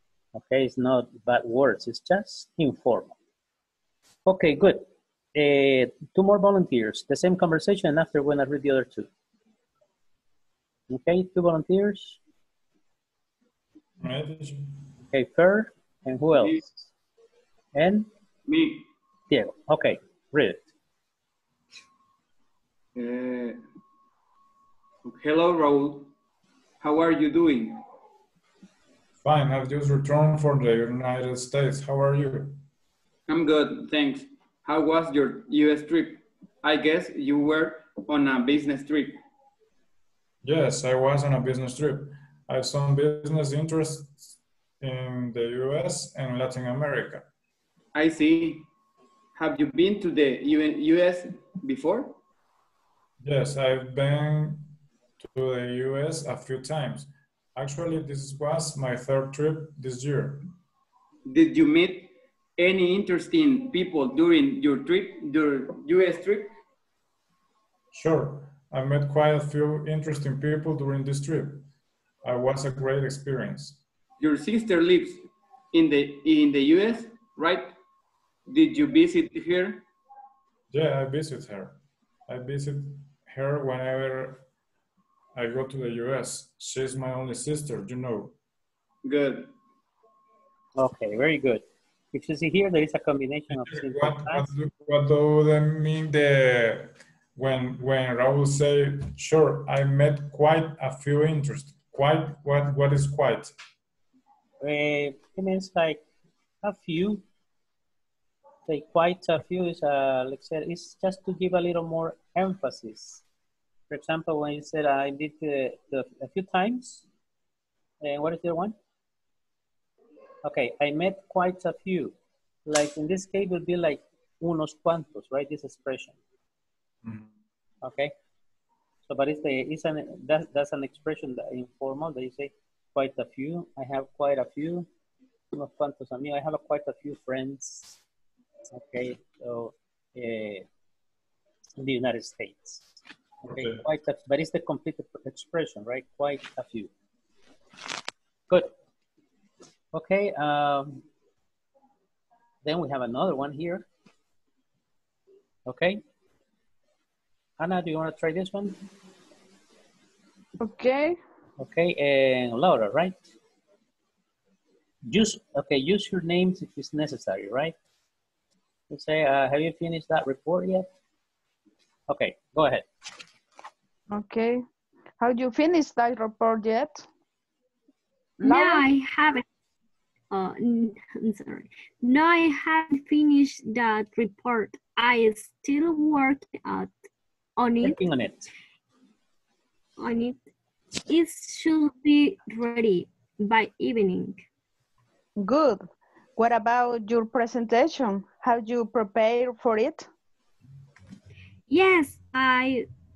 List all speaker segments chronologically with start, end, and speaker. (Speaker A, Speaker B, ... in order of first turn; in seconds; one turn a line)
Speaker A: 0.3-3.1
Speaker A: 4.2-9.1
Speaker A: 10.9-12.2
Speaker B: 14.0-14.7
Speaker A: 15.1-16.7
Speaker C: 16.4-16.7
Speaker A: 17.7-18.1
Speaker C: 18.5-18.9
Speaker A: 19.3-20.7
Speaker C: 22.9-23.6
Speaker C: 25.0-26.1
Speaker C: 26.8-27.8
Speaker B: 29.2-32.6
Speaker C: 33.3-39.2
Speaker B: 40.4-47.2
Speaker C: 47.9-48.7
Speaker C: 49.3-52.2
Speaker B: 53.2-60.4
Speaker C: 61.2-66.5
Speaker B: 67.9-71.6
Speaker B: 72.2-73.8
Speaker C: 74.2-77.7
Speaker C: 78.5-79.8
Speaker B: 80.7-84.4
Speaker B: 85.3-88.3
Speaker C: 89.0-89.5
Speaker A: 90.8-94.5
Speaker B: 93.5-103.5
Speaker A: 104.6-106.0
Speaker A: 106.6-107.2
Speaker A: 108.7-113.2
Speaker A: 113.9-117.0
Speaker A: 118.0-118.7
Speaker A: 120.4-122.1
Speaker A: 122.7-126.2
Speaker B: 127.0-127.3
Speaker A: 127.8-128.1
Speaker A: 129.1-134.9
Speaker A: 135.5-138.0
Speaker A: 138.7-140.7
Speaker A: 141.8-142.9
Speaker A: 143.4-146.9
Speaker B: 143.5-143.8
Speaker A: 149.9-151.0
Speaker A: 152.6-153.8
Speaker A: 155.7-156.0
Speaker A: 157.6-158.8
Speaker D: 160.6-161.2
Speaker A: 161.6-163.2
Speaker A: 165.1-167.7
Speaker A: 168.9-170.9
Speaker A: 172.1-172.8
Speaker D: 174.1-174.6
Speaker D: 175.2-177.1
Speaker D: 178.4-178.8
Speaker E: 178.4-179.4
Speaker E: 180.3-186.9
Speaker E: 187.6-188.0
Speaker A: 187.8-188.5
Speaker E: 190.0-190.4
Speaker E: 191.1-194.4
Speaker D: 195.4-200.1
Speaker E: 201.7-202.9